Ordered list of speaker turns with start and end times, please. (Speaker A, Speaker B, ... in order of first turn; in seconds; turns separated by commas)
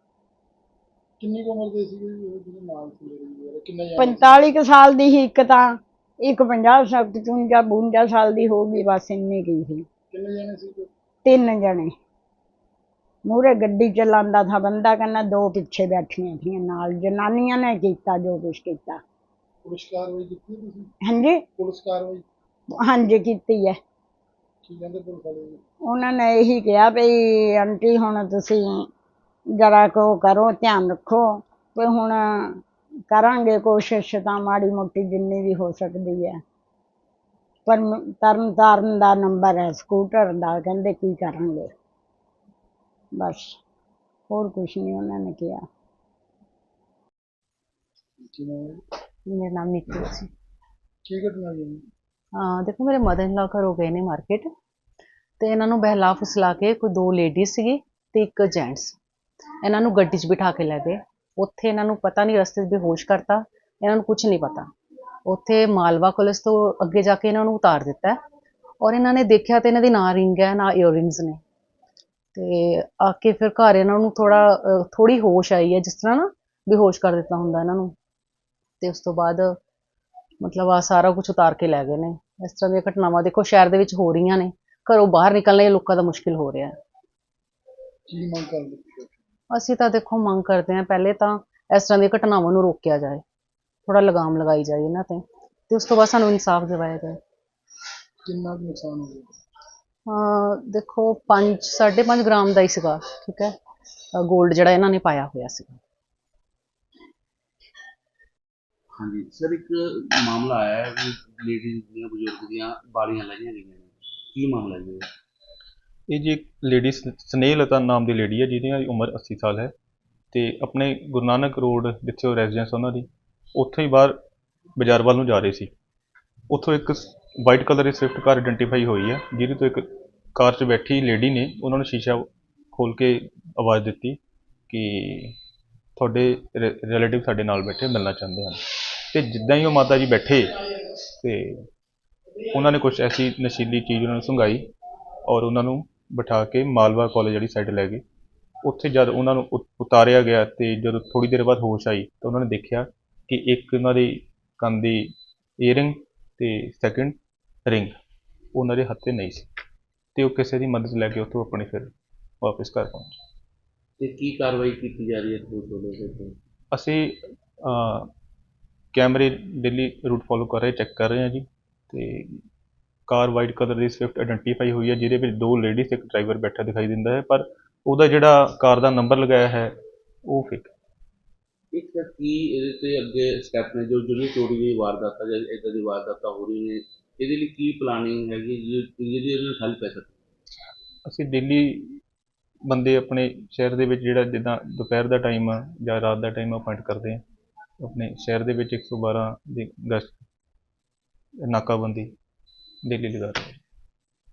Speaker A: 1.2-4.5, Speaker B: 4.0-9.9, Speaker A: 10.1-10.9, Speaker B: 11.2-11.9, Speaker B: 13.2-19.0, Speaker A: 19.6-20.9, Speaker B: 21.1-21.4, Speaker A: 21.6-22.2, Speaker B: 22.8-23.8, Speaker A: 24.6-25.6, Speaker B: 25.9-28.7, Speaker B: 29.5-32.6, Speaker B: 33.1-36.4, Speaker B: 37.7-41.7, Speaker B: 43.1-43.6, Speaker B: 44.3-45.6, Speaker A: 48.2-48.8, Speaker C: 49.3-50.3, Speaker A: 51.0-51.9, Speaker C: 52.4-54.5, Speaker C: 55.4-59.0, Speaker C: 59.6-64.7, Speaker C: 65.2-68.2, Speaker C: 68.8-71.4, Speaker C: 72.3-77.9, Speaker C: 78.8-79.6, Speaker C: 80.4-86.7, Speaker A: 88.1-89.1, Speaker C: 89.5-93.2, Speaker C: 93.8-97.2, Speaker A: 98.2-99.3, Speaker C: 100.1-103.5, Speaker C: 104.1-105.8, Speaker D: 108.9-115.1, Speaker E: 116.1-119.7, Speaker E: 120.3-124.2, Speaker E: 124.8-125.7, Speaker E: 126.5-134.2, Speaker E: 134.7-135.3, Speaker E: 136.0-140.5, Speaker E: 141.2-141.6, Speaker E: 142.5-144.6, Speaker E: 145.2-148.0, Speaker E: 148.6-157.9, Speaker E: 158.5-159.5, Speaker E: 160.1-163.1, Speaker D: 164.0-166.3, Speaker E: 166.7-168.1, Speaker E: 168.9-172.4, Speaker E: 173.1-179.7, Speaker E: 180.3-180.7, Speaker D: 181.7-190.2, Speaker E: 191.1-192.0, Speaker E: 192.7-197.2, Speaker E: 197.8-200.2, Speaker E: 201.4-202.1, Speaker E: 202.8-203.6